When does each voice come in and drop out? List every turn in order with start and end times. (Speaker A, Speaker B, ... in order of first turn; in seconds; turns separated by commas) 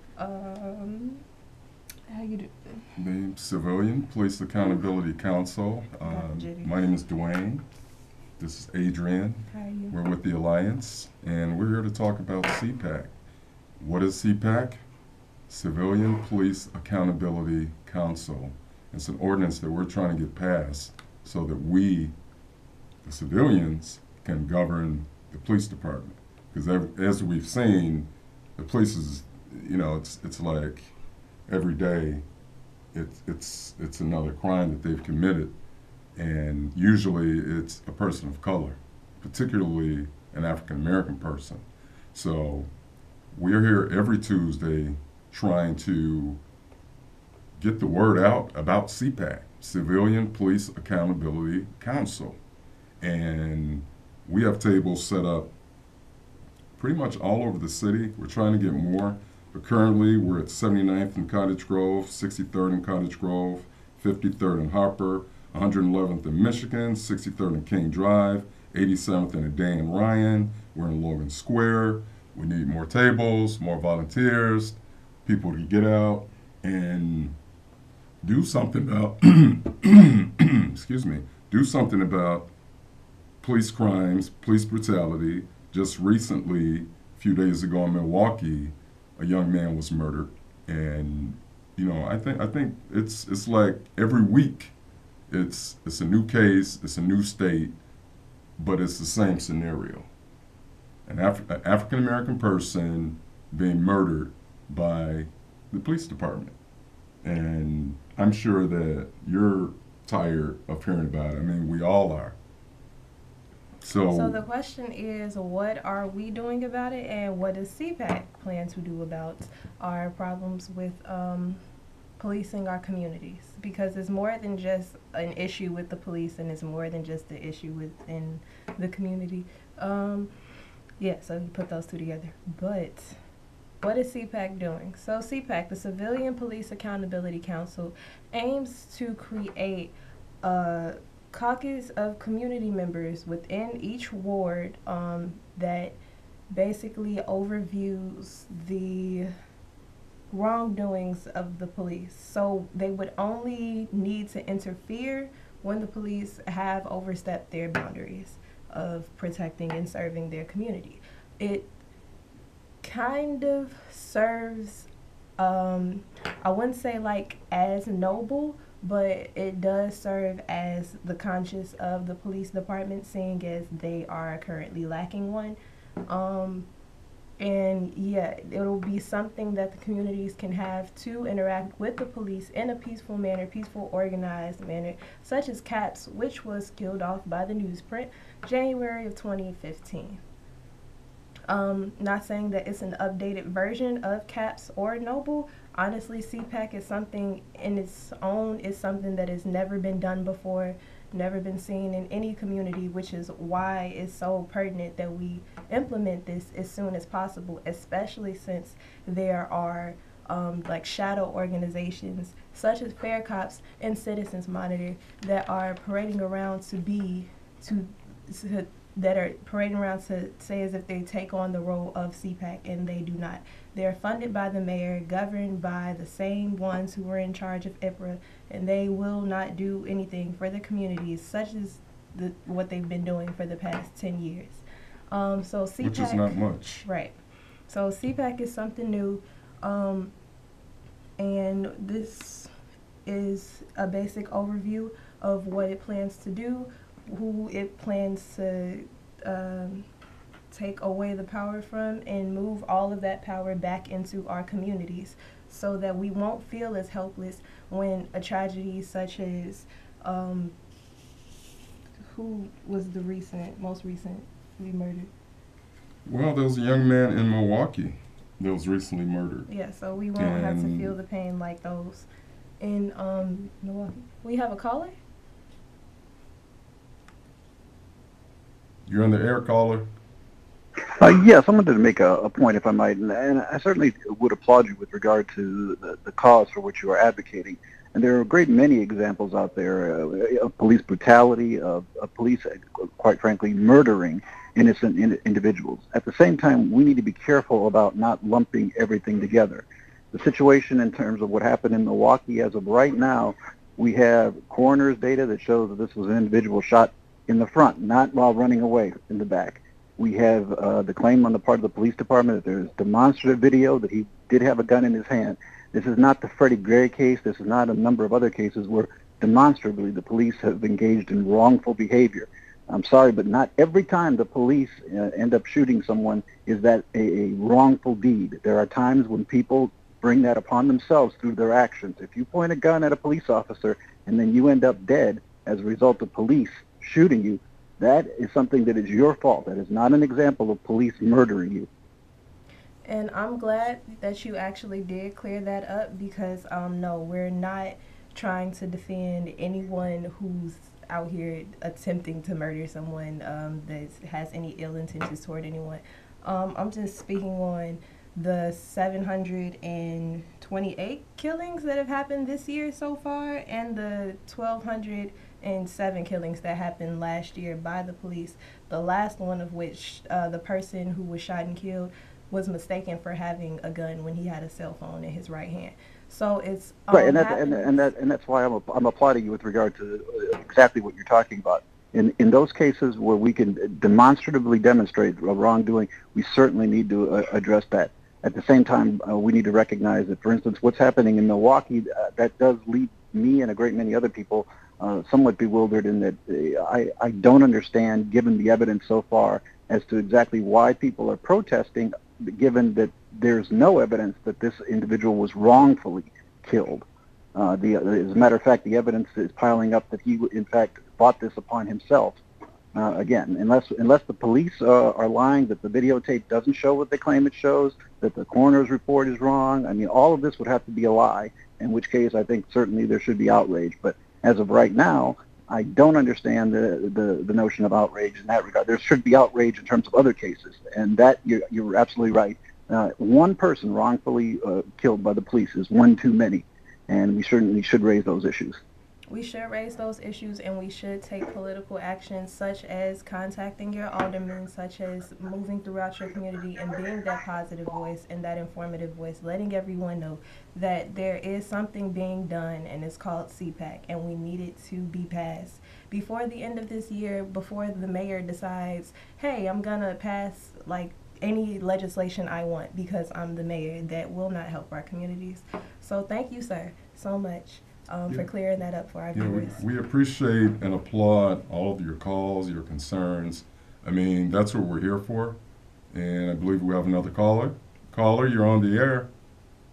Speaker A: 0.2-1.2, Speaker A: 2.1-2.9, Speaker B: 3.0-7.7, Speaker A: 6.0-6.8, Speaker B: 8.4-13.1, Speaker A: 9.5-9.9, Speaker B: 13.8-14.8, Speaker B: 15.5-22.1, Speaker B: 23.0-30.9, Speaker B: 31.5-32.2, Speaker B: 32.9-35.5, Speaker B: 36.2-42.7, Speaker B: 43.3-46.4, Speaker B: 47.6-52.4, Speaker B: 53.0-55.5, Speaker B: 56.8-77.3, Speaker B: 78.2-82.5, Speaker B: 83.4-94.8, Speaker B: 95.3-97.8, Speaker B: 98.6-100.1, Speaker B: 101.1-106.5, Speaker B: 107.2-112.4, Speaker B: 113.8-114.4, Speaker A: 114.1-121.6, Speaker A: 122.2-130.3, Speaker A: 131.0-133.2, Speaker A: 133.8-146.0, Speaker A: 146.5-149.3, Speaker A: 150.3-161.7, Speaker A: 162.8-164.9, Speaker A: 165.4-176.7, Speaker A: 177.4-190.2, Speaker A: 191.5-236.3, Speaker B: 235.8-236.9, Speaker A: 236.8-237.2, Speaker A: 237.7-240.1, Speaker A: 241.2-242.5, Speaker A: 243.1-249.9, Speaker A: 250.5-260.6, Speaker A: 262.1-265.1, Speaker B: 266.1-269.5, Speaker A: 269.5-272.1, Speaker B: 270.2-270.9, Speaker A: 272.6-275.0, Speaker B: 278.9-279.9, Speaker C: 281.0-341.7, Speaker A: 342.9-377.9, Speaker C: 376.9-412.2, Speaker C: 412.7-438.6, Speaker A: 439.1-469.6, Speaker B: 469.1-475.4, Speaker B: 475.9-479.1